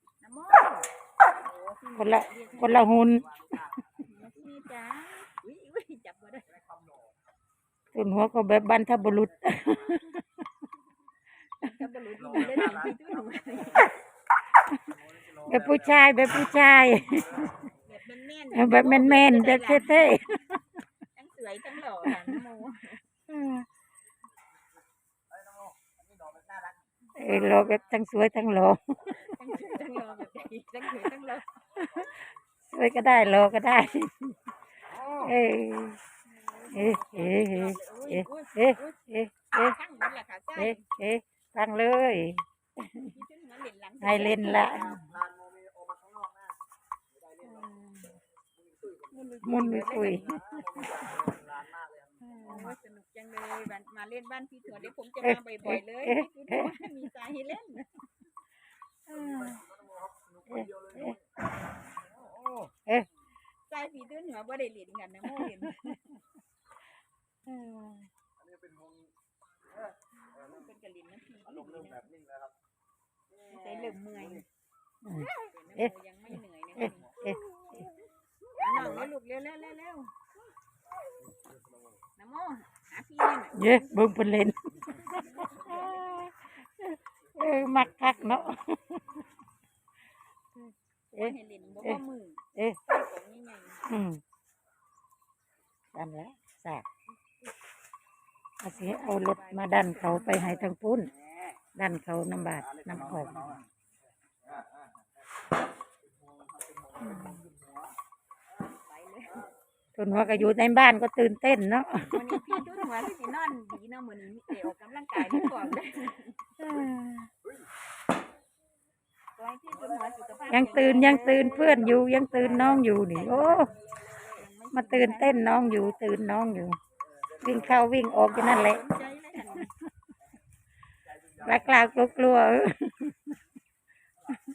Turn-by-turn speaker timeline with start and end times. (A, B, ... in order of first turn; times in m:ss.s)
0:00.2-0:02.8 A
0:02.0-0:03.3 B
0:02.6-0:04.3 C
0:04.0-0:06.6 A
0:06.5-0:07.2 C
0:07.9-0:10.2 B
0:11.6-0:13.9 A
0:12.2-0:13.9 C
0:14.6-0:17.7 B
0:14.9-0:16.0 C
0:17.4-0:17.7 C
0:17.7-0:20.2 A
0:18.5-0:20.6 B
0:21.2-0:23.0 A
0:22.0-0:22.4 B
0:23.3-0:23.7 B
0:25.3-0:26.8 C
0:27.1-0:28.0 A
0:27.2-0:29.6 B
0:29.2-0:31.6 A
0:31.8-0:34.4 B
0:34.9-0:35.2 C
0:35.0-0:36.0 B
0:36.2-0:40.8 A
0:36.7-0:39.8 B
0:40.6-0:43.1 B
0:43.1-0:44.6 A
0:44.0-0:45.0 B
0:44.2-0:46.6 C
0:47.2-0:47.7 C
0:47.4-0:48.2 B
0:48.6-0:52.7 C
0:49.1-0:50.8 A
0:49.4-0:50.8 B
0:52.2-0:52.8 B
0:52.4-0:58.1 A
0:55.2-0:56.9 B
0:59.1-0:59.6 B
0:59.2-1:01.2 C
1:00.5-1:01.2 B
1:02.6-1:03.1 B
1:03.7-1:06.2 A
1:05.3-1:06.0 B
1:07.5-1:08.1 B
1:08.4-1:09.1 C
1:10.2-1:12.1 A
1:11.6-1:12.5 C
1:13.4-1:14.2 C
1:13.4-1:14.5 A
1:15.0-1:15.9 B
1:15.2-1:17.2 A
1:16.8-1:17.4 B
1:17.1-1:17.9 C
1:18.6-1:20.2 A
1:18.8-1:19.0 C
1:22.2-1:24.0 A
1:23.6-1:29.2 B
1:25.2-1:26.0 A
1:28.0-1:28.5 A
1:30.6-1:32.0 B
1:31.2-1:33.9 A
1:33.9-1:34.2 B
1:35.9-1:36.8 B
1:38.6-1:41.1 B
1:38.7-1:40.8 A
1:41.8-1:43.6 B
1:42.7-1:43.6 C
1:46.2-1:48.0 C
1:47.0-1:47.4 B
1:48.6-1:49.5 A
1:50.0-1:52.8 B
1:50.1-1:50.5 A
1:52.1-1:56.6 A
1:55.2-1:55.6 B
1:56.6-1:57.3 B
1:59.4-2:05.6 A
2:00.5-2:03.8 B
2:02.3-2:02.9 C
2:03.6-2:04.3 C
2:04.7-2:06.8 B
2:07.4-2:07.8 C
2:07.4-2:08.8 B
2:08.1-2:09.7 A
2:09.4-2:09.7 B
2:11.2-2:11.9 C
2:11.4-2:13.4 B